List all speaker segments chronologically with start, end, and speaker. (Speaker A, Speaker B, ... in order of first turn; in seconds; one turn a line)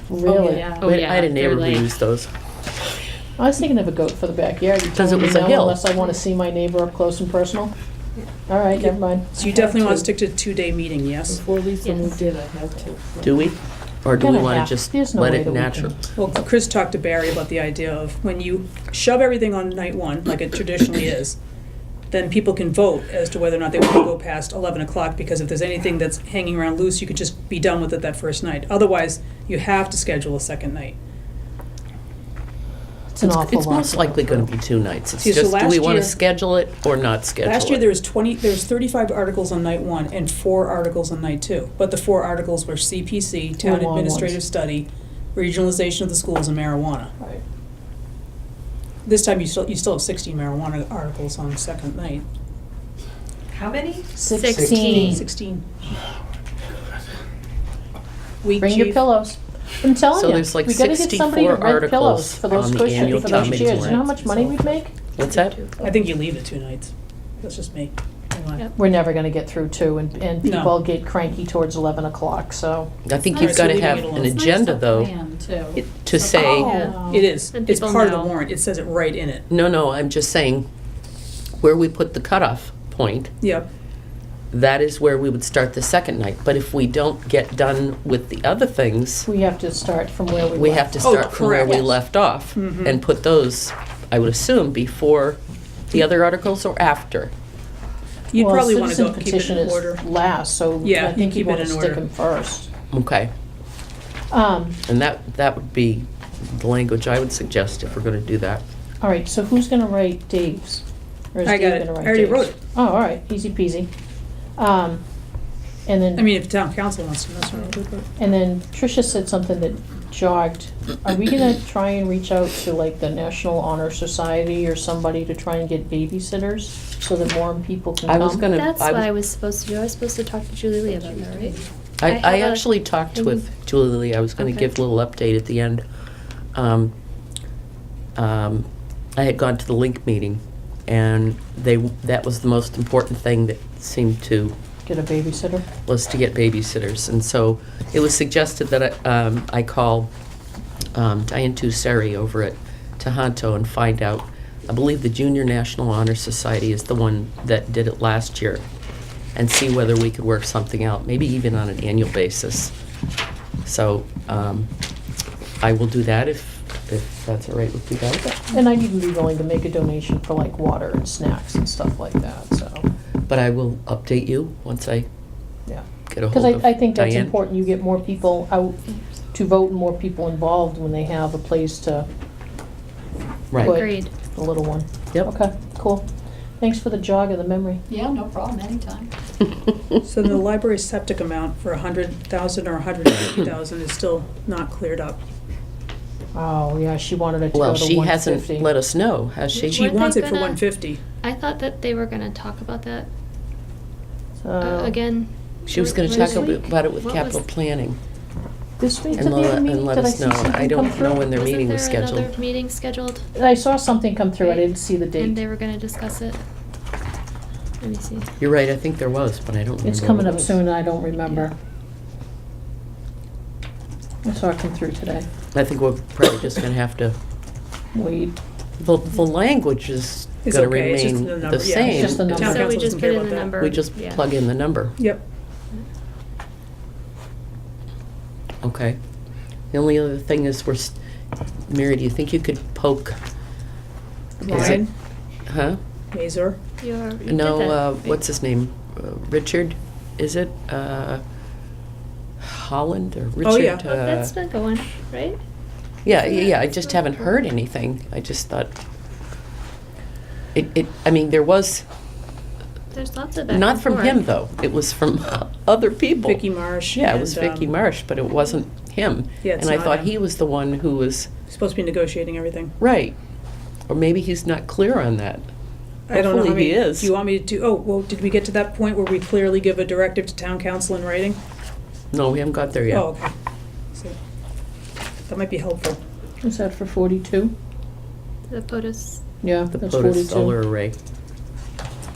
Speaker A: 0.1-0.7
Speaker B: 0.2-0.9
Speaker C: 0.7-1.9
Speaker D: 0.8-2.3
Speaker A: 3.4-7.7
Speaker D: 4.9-5.8
Speaker A: 8.5-9.8
Speaker E: 8.8-11.4
Speaker B: 9.4-10.1
Speaker B: 11.3-13.5
Speaker C: 11.8-12.2
Speaker D: 13.2-16.0
Speaker A: 14.2-16.0
Speaker E: 16.2-21.4
Speaker E: 22.1-31.0
Speaker A: 33.1-34.5
Speaker D: 33.2-37.9
Speaker E: 35.2-36.2
Speaker E: 37.4-47.1
Speaker A: 43.6-44.4
Speaker E: 49.0-52.3
Speaker A: 54.1-55.3
Speaker C: 54.3-55.2
Speaker E: 54.8-55.7
Speaker E: 58.4-59.1
Speaker A: 58.6-64.9
Speaker D: 60.1-64.0
Speaker B: 63.4-64.7
Speaker D: 65.2-65.6
Speaker C: 65.2-65.9
Speaker E: 65.8-68.7
Speaker A: 68.8-72.9
Speaker E: 70.4-70.8
Speaker D: 73.0-75.1
Speaker B: 73.3-76.6
Speaker E: 73.3-74.4
Speaker D: 75.8-76.7
Speaker E: 76.3-79.5
Speaker C: 76.4-77.0
Speaker A: 76.6-77.3
Speaker C: 77.5-78.3
Speaker D: 79.5-80.7
Speaker D: 81.6-83.3
Speaker E: 83.4-83.7
Speaker D: 84.5-89.3
Speaker A: 89.2-91.0
Speaker D: 90.5-95.4
Speaker E: 91.0-91.9
Speaker E: 92.5-93.0
Speaker D: 95.9-97.3
Speaker E: 98.3-100.0
Speaker A: 98.3-102.7
Speaker E: 100.8-102.0
Speaker D: 102.9-103.3
Speaker A: 104.3-104.8
Speaker D: 104.9-108.6
Speaker A: 109.0-113.9
Speaker E: 111.5-112.6
Speaker A: 114.6-115.0
Speaker A: 115.9-116.3
Speaker E: 116.2-118.1
Speaker A: 118.2-128.4
Speaker D: 128.1-129.1
Speaker C: 128.5-133.4
Speaker D: 132.0-135.8
Speaker C: 134.4-134.7
Speaker D: 136.6-136.9
Speaker D: 138.2-144.6
Speaker A: 144.8-145.7
Speaker D: 145.9-150.1
Speaker D: 150.9-158.7
Speaker D: 159.3-162.7
Speaker D: 163.7-164.7
Speaker D: 165.6-168.3
Speaker A: 168.2-172.9
Speaker D: 173.3-175.1
Speaker A: 175.7-178.8
Speaker D: 176.1-177.4
Speaker A: 179.3-182.1
Speaker D: 183.5-183.8
Speaker A: 183.6-186.1
Speaker C: 183.6-184.1
Speaker A: 186.6-187.8
Speaker B: 187.9-189.1
Speaker E: 190.1-195.2
Speaker A: 196.3-198.7
Speaker D: 197.5-199.9
Speaker C: 199.5-200.6
Speaker E: 199.7-201.0
Speaker C: 201.2-203.1
Speaker A: 204.4-205.0
Speaker C: 204.6-207.4
Speaker D: 205.7-208.0
Speaker A: 206.0-206.6
Speaker A: 208.8-211.3
Speaker D: 209.2-212.3
Speaker C: 211.2-213.2
Speaker A: 213.4-215.4
Speaker C: 214.4-216.4
Speaker C: 217.8-218.3
Speaker D: 218.4-220.6
Speaker A: 219.8-221.5
Speaker A: 224.2-225.3
Speaker D: 225.5-227.2
Speaker A: 227.9-228.4
Speaker D: 228.8-232.6
Speaker E: 230.4-233.6
Speaker A: 231.8-232.7
Speaker C: 232.4-234.2
Speaker D: 233.6-234.9
Speaker D: 238.6-239.0
Speaker D: 239.7-240.9
Speaker D: 241.7-243.2
Speaker E: 244.4-244.9
Speaker D: 244.4-244.8
Speaker D: 245.5-245.8
Speaker E: 246.1-246.6
Speaker C: 246.8-248.2
Speaker D: 247.3-251.2
Speaker D: 252.4-254.4
Speaker E: 253.4-253.8
Speaker C: 253.8-255.4
Speaker D: 256.0-258.7
Speaker C: 256.1-257.4
Speaker D: 260.6-261.9
Speaker C: 262.9-264.2
Speaker D: 263.5-271.3
Speaker E: 266.2-267.7
Speaker E: 269.4-270.1
Speaker E: 271.5-272.7
Speaker D: 272.8-273.2
Speaker D: 273.9-275.5
Speaker E: 276.1-281.4
Speaker D: 276.1-277.1
Speaker D: 282.1-283.1
Speaker E: 282.9-283.3
Speaker E: 285.3-286.0
Speaker A: 286.4-287.5
Speaker C: 288.5-289.2
Speaker A: 289.4-290.6
Speaker D: 289.7-291.0